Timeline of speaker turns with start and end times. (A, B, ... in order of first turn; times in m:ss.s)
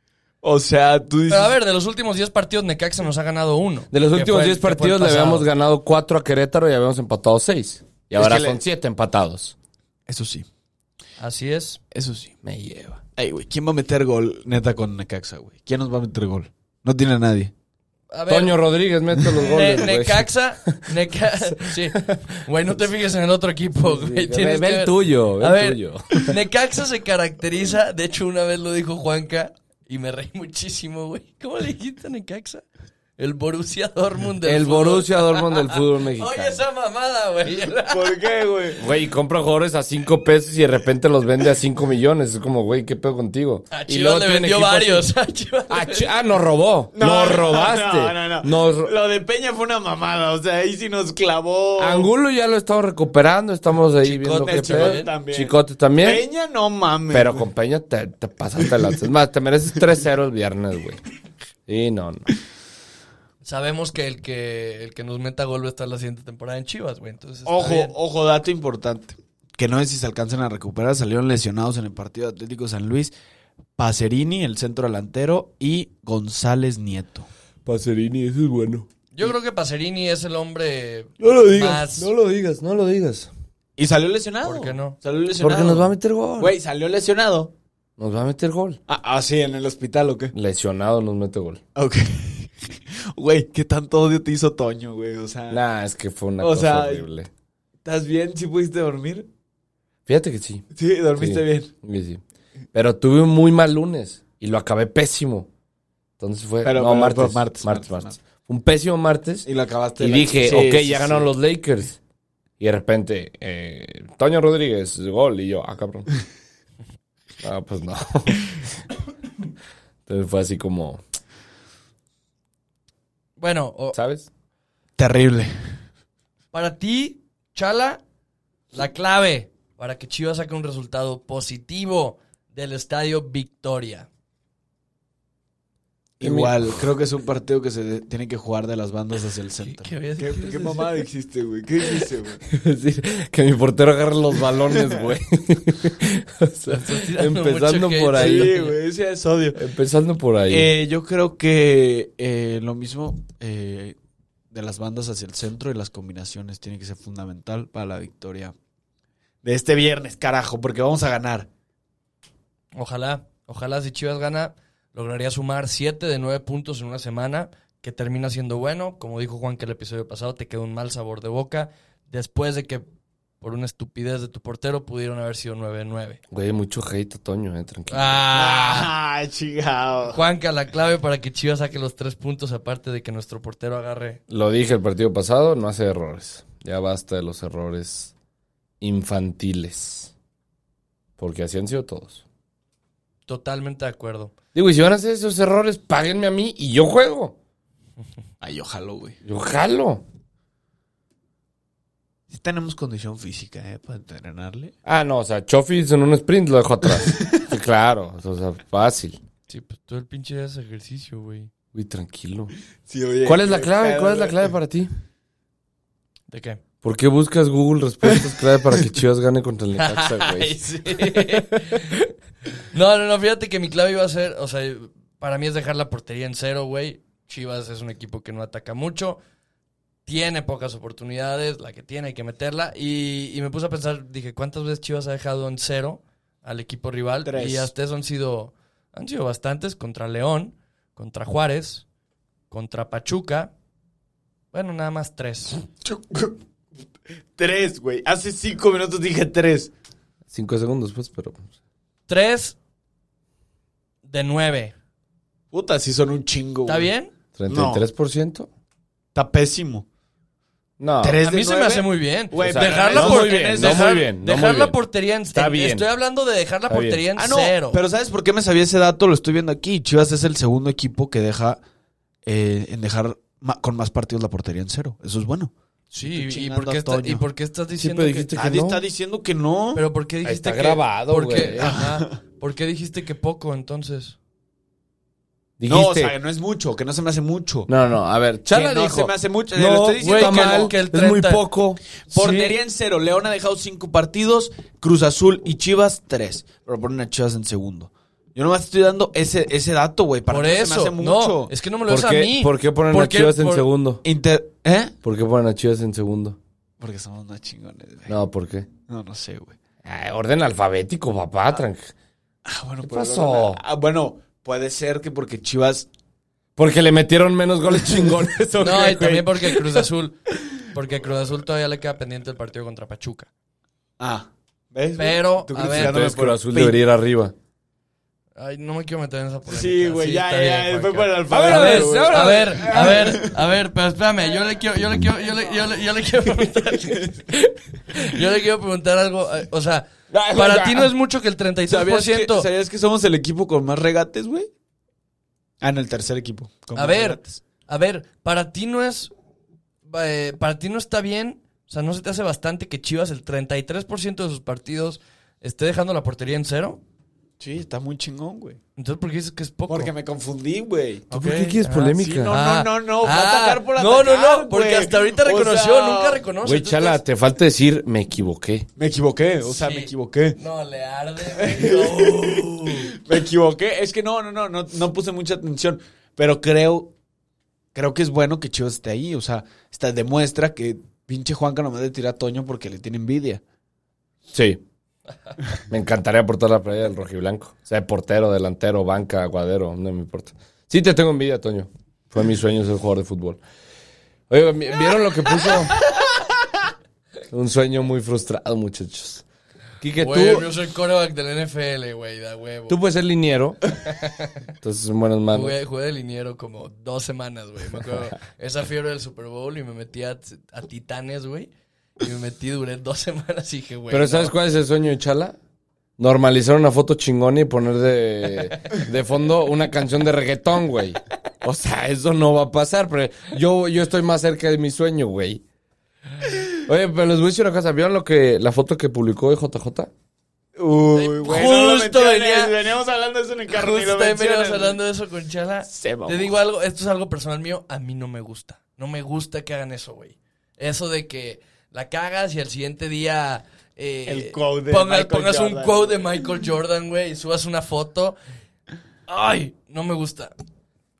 0:00.4-0:01.6 A
0:01.3-0:05.5 B
0:03.9-0:09.5 C
0:08.1-0:08.6 A
0:10.1-0:10.4 A
0:11.2-0:11.8 B
0:11.9-0:12.3 A
0:12.4-0:13.0 C
0:13.2-0:17.5 A
0:18.1-0:18.6 B
0:18.3-0:21.0 C
0:19.2-0:19.4 A
0:19.3-0:32.6 B
0:21.7-0:22.2 C
0:23.8-0:26.4 C
0:33.2-0:38.2 B
0:34.4-0:36.6 C
0:37.9-0:38.8 A
0:38.8-0:45.1 C
0:43.7-0:46.1 B
0:45.7-0:48.9 C
0:46.9-0:52.1 A
0:51.8-0:56.2 C
0:54.0-0:55.1 B
0:54.4-0:57.4 A
0:57.1-1:01.0 C
1:01.7-1:02.3 C
1:03.4-1:07.9 B
1:07.4-1:13.1 A
1:13.8-1:17.3 A
1:17.6-1:18.9 C
1:19.1-1:22.1 B
1:21.2-1:23.3 C
1:23.8-1:27.5 A
1:24.4-1:25.0 B
1:25.4-1:26.5 C
1:28.0-1:28.8 C
1:28.9-1:30.3 A
1:30.3-1:31.6 C
1:31.8-1:35.6 A
1:35.5-1:37.3 C
1:36.4-1:37.1 A
1:37.8-1:39.3 A
1:40.0-1:40.6 C
1:40.7-1:41.7 A
1:41.1-1:42.2 C
1:42.7-1:45.5 C
1:46.2-1:49.5 C
1:46.6-1:48.2 A
1:49.4-1:51.3 A
1:50.0-1:52.0 C
1:52.6-1:56.1 C
1:57.4-1:58.6 C
2:00.0-2:01.0 C
2:03.4-2:04.0 B
2:03.9-2:04.3 C
2:05.0-2:05.5 A
2:06.5-2:08.0 B
2:08.7-2:14.1 B
2:16.2-2:22.4 A
2:16.2-2:16.8 C
2:19.6-2:20.8 B
2:22.5-2:28.5 C
2:24.8-2:25.1 A
2:26.7-2:28.8 B
2:28.1-2:29.6 A
2:29.5-2:30.7 C
2:30.5-2:34.0 A
2:34.5-2:38.5 A
2:39.4-2:41.5 A
2:42.7-2:52.8 B
2:53.4-2:56.2 B
2:56.3-2:58.2 C
2:57.9-2:58.9 B
2:58.3-3:00.2 A
3:00.1-3:04.2 B
3:04.3-3:08.1 C
3:08.8-3:10.1 C
3:11.2-3:12.2 C
3:13.3-3:14.3 B
3:14.5-3:17.4 C
3:18.4-3:19.2 A
3:19.2-3:20.0 C
3:22.3-3:24.7 A
3:24.8-3:29.2 C
3:26.9-3:27.4 A
3:29.5-3:31.5 B
3:31.7-3:32.5 C
3:32.9-3:34.5 A
3:33.2-3:34.9 C
3:36.3-3:36.6 B
3:36.8-3:40.6 C
3:39.7-3:42.1 B
3:42.7-3:49.2 B
3:50.0-4:01.8 B
3:57.2-3:57.7 A
4:02.5-4:03.5 B
4:04.5-4:05.6 B
4:05.8-4:06.4 A
4:07.4-4:09.7 A
4:10.3-4:11.5 C
4:12.1-4:12.6 B
4:14.0-4:14.7 B
4:15.5-4:16.9 A
4:16.6-4:17.1 B
4:17.4-4:18.5 C
4:17.5-4:17.8 A
4:19.1-4:19.8 A
4:20.8-4:21.2 C
4:21.0-4:24.0 A
4:21.2-4:27.8 B
4:22.4-4:24.8 C
4:25.3-4:25.9 C
4:26.7-4:27.0 C
4:27.2-4:31.6 A
4:32.2-4:35.5 A
4:35.9-4:38.3 B
4:36.1-4:37.2 A
4:37.8-4:38.8 C
4:38.4-4:39.8 A
4:39.7-4:44.2 B
4:40.2-4:41.8 C
4:41.6-4:42.1 A
4:45.6-4:46.1 C
4:45.7-4:47.7 A
4:47.7-4:52.5 C
4:48.5-4:50.7 A
4:50.0-4:51.4 B
4:52.1-5:01.5 A
5:00.3-5:03.7 B
5:01.9-5:04.0 C
5:04.0-5:04.9 A
5:05.0-5:06.4 C
5:06.8-5:08.2 A
5:08.1-5:08.7 C
5:08.9-5:09.5 A
5:09.8-5:11.9 C
5:12.4-5:15.9 A
5:12.8-5:13.6 C
5:16.6-5:19.2 C
5:17.7-5:19.9 A
5:18.6-5:23.3 B
5:24.0-5:26.8 A
5:25.0-5:26.0 B
5:25.6-5:27.3 C
5:28.4-5:42.5 B
5:29.5-5:33.4 A
5:31.3-5:33.1 C
5:36.7-5:37.0 A
5:40.1-5:40.9 C
5:41.7-5:44.5 A
5:45.6-5:47.4 A
5:46.8-5:49.1 B
5:49.9-5:56.8 B
5:57.4-5:58.6 A
5:58.8-5:59.9 B
5:59.7-6:01.2 A
6:01.1-6:07.0 B
6:01.1-6:02.4 C
6:01.8-6:06.2 A
6:06.4-6:08.7 C
6:08.8-6:10.4 A
6:09.4-6:12.9 B
6:11.2-6:16.9 A
6:17.7-6:23.4 A
6:24.3-6:24.6 C
6:25.7-6:33.4 C
6:34.3-6:35.7 C
6:37.3-6:39.2 C
6:39.8-6:40.5 C
6:40.0-6:42.8 B
6:42.7-6:43.6 C
6:43.7-6:44.5 B
6:44.6-6:45.5 C
6:45.3-6:54.3 B
6:53.9-6:55.3 C
6:56.0-7:05.4 C
7:06.5-7:09.9 C
7:10.6-7:14.8 A
7:10.9-7:12.6 B
7:13.5-7:28.2 B
7:15.6-7:16.4 A
7:24.1-7:26.2 A
7:29.1-7:30.3 B